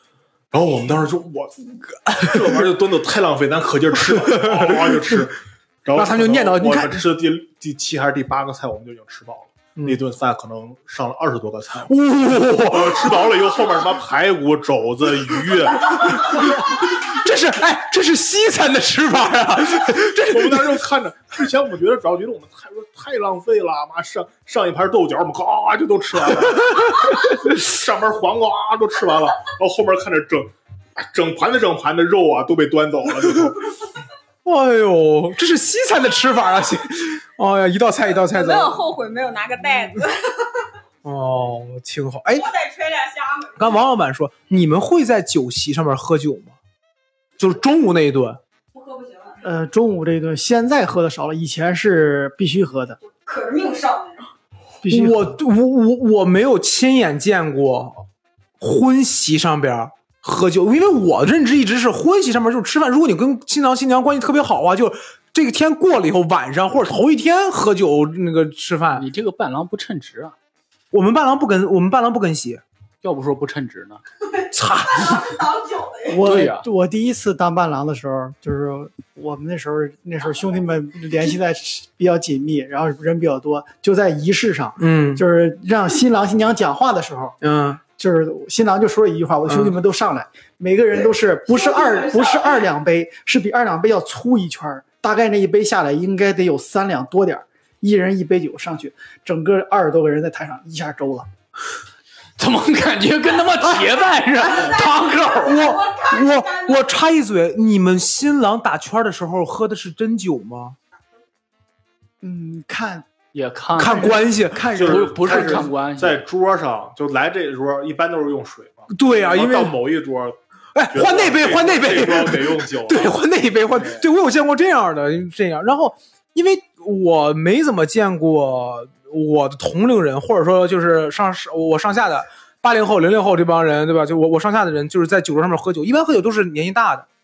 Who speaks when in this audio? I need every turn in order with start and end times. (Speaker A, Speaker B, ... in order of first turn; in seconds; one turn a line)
Speaker A: 0.5-11.9
Speaker B: 2.0-2.6
Speaker B: 4.1-5.2
Speaker B: 5.9-7.0
Speaker B: 11.9-13.3
Speaker A: 12.6-16.6
Speaker B: 16.2-20.7
Speaker A: 20.1-33.8
Speaker B: 26.7-27.3
Speaker B: 34.4-38.8
Speaker C: 38.2-40.7
Speaker B: 41.0-42.5
Speaker C: 42.4-43.6
Speaker B: 43.6-46.5
Speaker B: 47.4-48.4
Speaker C: 48.7-49.4
Speaker D: 49.4-53.0
Speaker C: 53.1-54.3
Speaker D: 54.8-55.3
Speaker B: 54.9-58.0
Speaker B: 58.6-69.0
Speaker E: 68.9-70.3
Speaker B: 70.9-72.6
Speaker E: 73.0-74.0
Speaker B: 74.5-75.3
Speaker C: 75.0-76.2
Speaker D: 76.1-87.4
Speaker E: 76.2-76.6
Speaker B: 84.8-85.2
Speaker B: 87.4-87.8
Speaker D: 88.0-101.3
Speaker B: 89.5-89.7
Speaker C: 91.7-92.5
Speaker E: 102.4-105.6
Speaker C: 104.5-106.8
Speaker B: 105.4-110.8
Speaker D: 112.2-113.1
Speaker E: 113.3-114.2
Speaker B: 113.8-114.7
Speaker D: 113.8-115.7
Speaker A: 114.7-120.4
Speaker E: 114.8-116.2
Speaker B: 118.9-119.7
Speaker B: 120.7-137.1
Speaker A: 120.9-123.2